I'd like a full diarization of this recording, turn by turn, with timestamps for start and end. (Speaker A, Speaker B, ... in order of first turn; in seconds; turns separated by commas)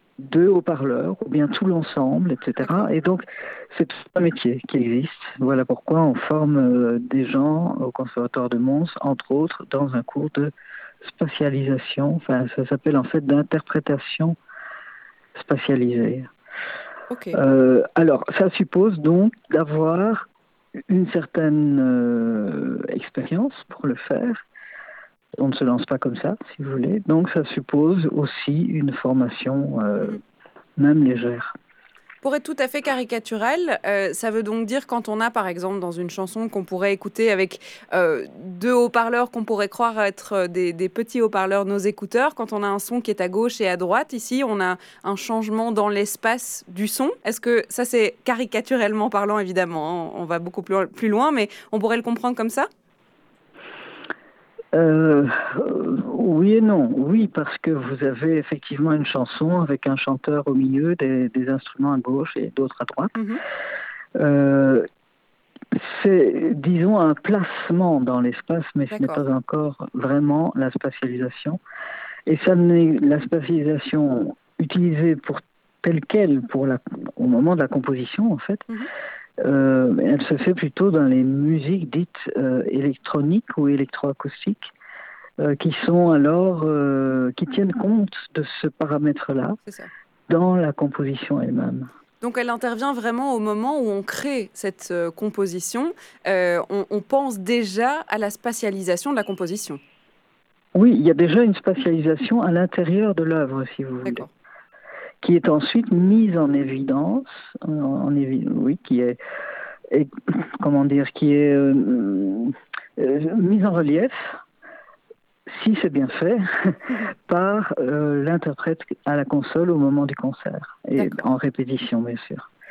Speaker A: 0.2-10.5, Speaker B: 2.6-2.9, Speaker A: 11.0-14.4, Speaker A: 15.3-16.3, Speaker B: 17.1-17.4, Speaker A: 17.3-20.3, Speaker A: 20.9-24.4, Speaker A: 25.4-30.2, Speaker A: 30.8-31.5, Speaker B: 32.2-52.7, Speaker A: 54.7-63.1, Speaker B: 63.1-63.4, Speaker A: 64.2-64.9, Speaker A: 65.7-71.6, Speaker B: 68.9-69.2, Speaker A: 72.3-78.7, Speaker A: 79.4-84.7, Speaker A: 85.4-89.6, Speaker A: 90.3-91.9, Speaker B: 92.2-99.8, Speaker A: 100.7-104.2, Speaker A: 105.2-109.2, Speaker A: 109.9-114.3, Speaker A: 115.5-122.5, Speaker B: 121.0-121.2